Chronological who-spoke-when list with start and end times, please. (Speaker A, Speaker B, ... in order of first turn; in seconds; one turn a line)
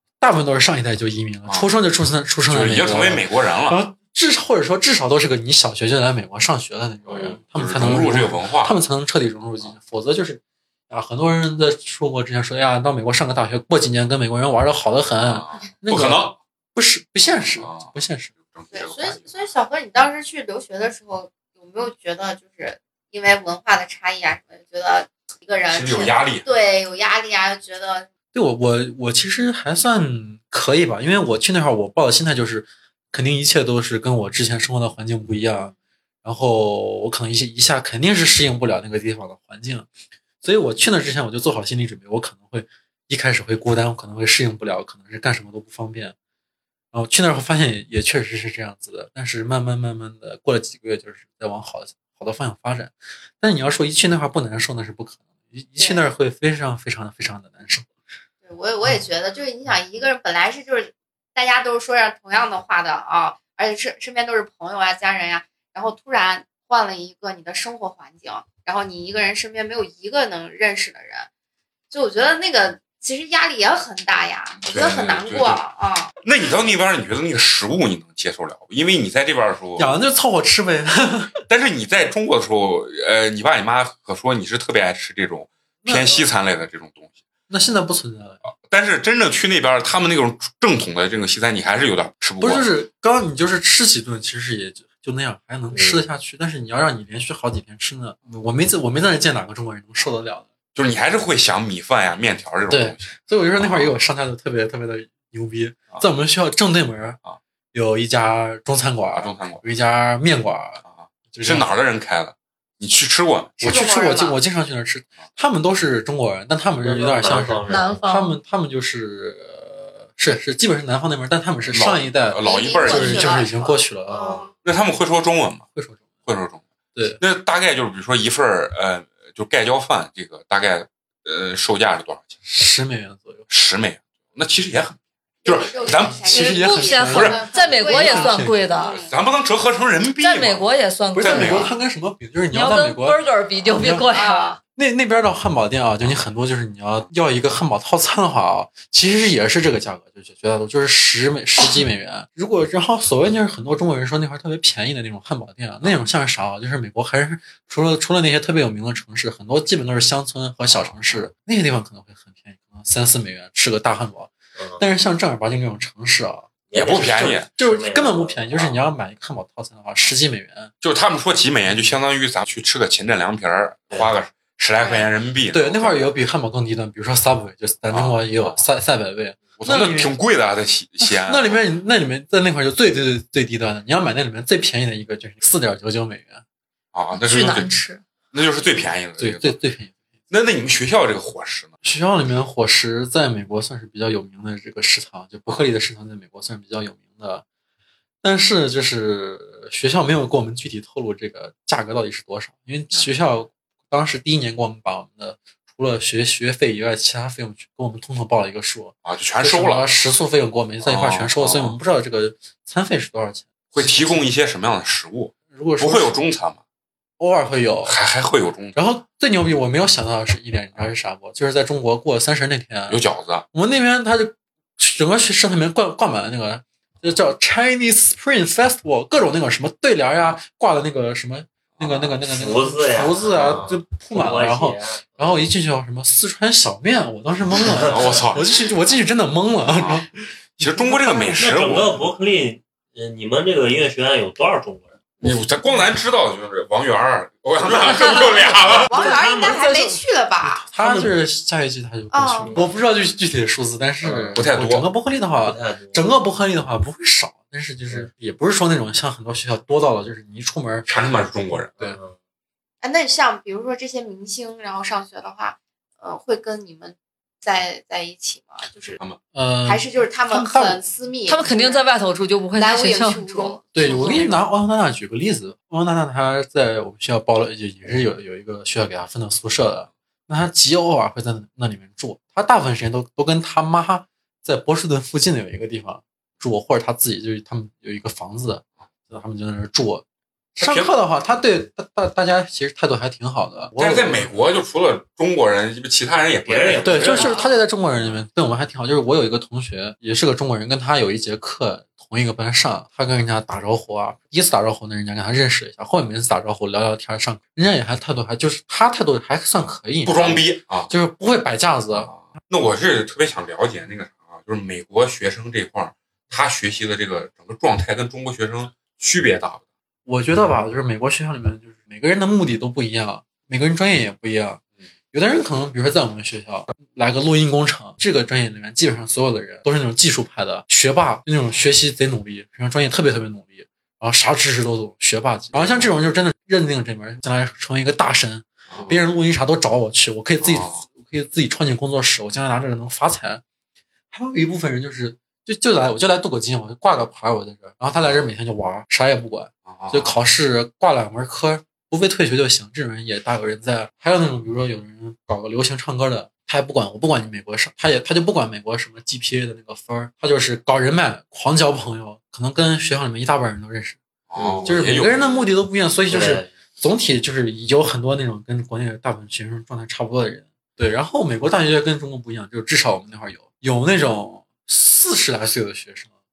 Speaker A: 0.2-18.3
Speaker B: 2.5-3.8
Speaker B: 7.2-8.7
Speaker B: 15.2-16.4
Speaker B: 17.6-17.9
Speaker B: 18.5-19.4
Speaker C: 18.7-28.1
Speaker B: 25.7-26.5
Speaker A: 28.3-35.7
Speaker A: 36.2-39.9
Speaker A: 40.4-46.1
Speaker A: 46.9-57.9
Speaker C: 55.8-56.0
Speaker C: 58.4-71.3
Speaker C: 71.9-76.1
Speaker B: 74.7-75.6
Speaker B: 76.2-79.9
Speaker A: 79.8-81.4
Speaker B: 81.5-87.2
Speaker A: 85.8-86.3
Speaker A: 87.5-88.4
Speaker B: 88.5-92.7
Speaker A: 92.4-100.5
Speaker D: 95.7-96.0
Speaker B: 100.8-103.9
Speaker A: 102.7-107.2
Speaker A: 107.7-111.7
Speaker B: 109.1-109.6
Speaker B: 110.9-113.6
Speaker A: 113.6-124.4
Speaker C: 113.6-114.4
Speaker D: 116.8-118.0
Speaker E: 117.7-118.3
Speaker B: 121.7-123.5
Speaker E: 122.4-123.8
Speaker C: 124.1-124.5
Speaker D: 124.1-124.5
Speaker B: 124.6-125.7
Speaker A: 125.8-126.1
Speaker B: 126.3-126.6
Speaker A: 126.9-127.2
Speaker B: 127.2-132.4
Speaker A: 132.4-133.5
Speaker B: 133.5-136.4
Speaker C: 135.4-139.1
Speaker A: 136.3-138.6
Speaker E: 136.3-139.0
Speaker B: 137.1-137.4
Speaker B: 138.9-141.7
Speaker E: 140.2-141.7
Speaker A: 141.1-143.2
Speaker E: 142.5-144.6
Speaker A: 143.7-144.1
Speaker C: 144.1-144.6
Speaker A: 144.8-170.7
Speaker D: 164.6-164.8
Speaker D: 166.7-168.8
Speaker B: 166.7-167.5
Speaker B: 170.8-176.1
Speaker C: 174.8-175.1
Speaker A: 175.5-180.1
Speaker B: 177.9-178.6
Speaker B: 179.6-181.6
Speaker A: 181.0-186.4
Speaker B: 186.9-187.8
Speaker E: 187.1-188.0
Speaker B: 188.3-189.6
Speaker A: 189.2-190.0
Speaker B: 190.3-191.7
Speaker A: 191.8-197.4
Speaker A: 198.2-214.3
Speaker B: 209.1-209.9
Speaker B: 210.8-211.8
Speaker B: 213.7-216.6
Speaker A: 215.5-216.2
Speaker A: 217.2-218.0
Speaker B: 217.9-218.8
Speaker A: 218.8-241.5
Speaker B: 222.9-223.4
Speaker B: 231.8-232.2
Speaker D: 232.3-235.4
Speaker D: 237.6-238.2
Speaker B: 237.9-238.5
Speaker B: 239.7-240.0
Speaker B: 240.6-242.0
Speaker D: 241.4-245.3
Speaker B: 245.2-248.9
Speaker D: 248.6-249.9
Speaker C: 248.9-250.7
Speaker A: 248.9-249.9
Speaker A: 250.6-261.0
Speaker D: 250.8-251.1
Speaker C: 252.1-252.5
Speaker D: 252.3-252.8
Speaker D: 254.0-254.4
Speaker B: 254.3-254.9
Speaker D: 255.4-256.2
Speaker B: 260.9-261.7
Speaker D: 261.8-262.2
Speaker C: 262.8-269.0
Speaker A: 269.3-270.8
Speaker C: 269.6-271.8
Speaker E: 271.3-274.4
Speaker C: 272.6-274.3
Speaker A: 273.7-294.3
Speaker B: 290.6-291.0
Speaker B: 293.8-297.4
Speaker D: 296.4-297.4
Speaker A: 296.8-312.2
Speaker C: 297.3-297.6
Speaker B: 310.1-310.9
Speaker B: 311.9-319.6
Speaker A: 320.1-324.6
Speaker A: 325.1-343.4
Speaker B: 335.5-335.9
Speaker B: 338.7-339.0
Speaker B: 340.4-340.9
Speaker A: 344.1-364.0
Speaker B: 349.7-350.2
Speaker B: 364.3-365.2
Speaker D: 364.4-365.1
Speaker A: 364.6-376.1
Speaker D: 366.1-366.5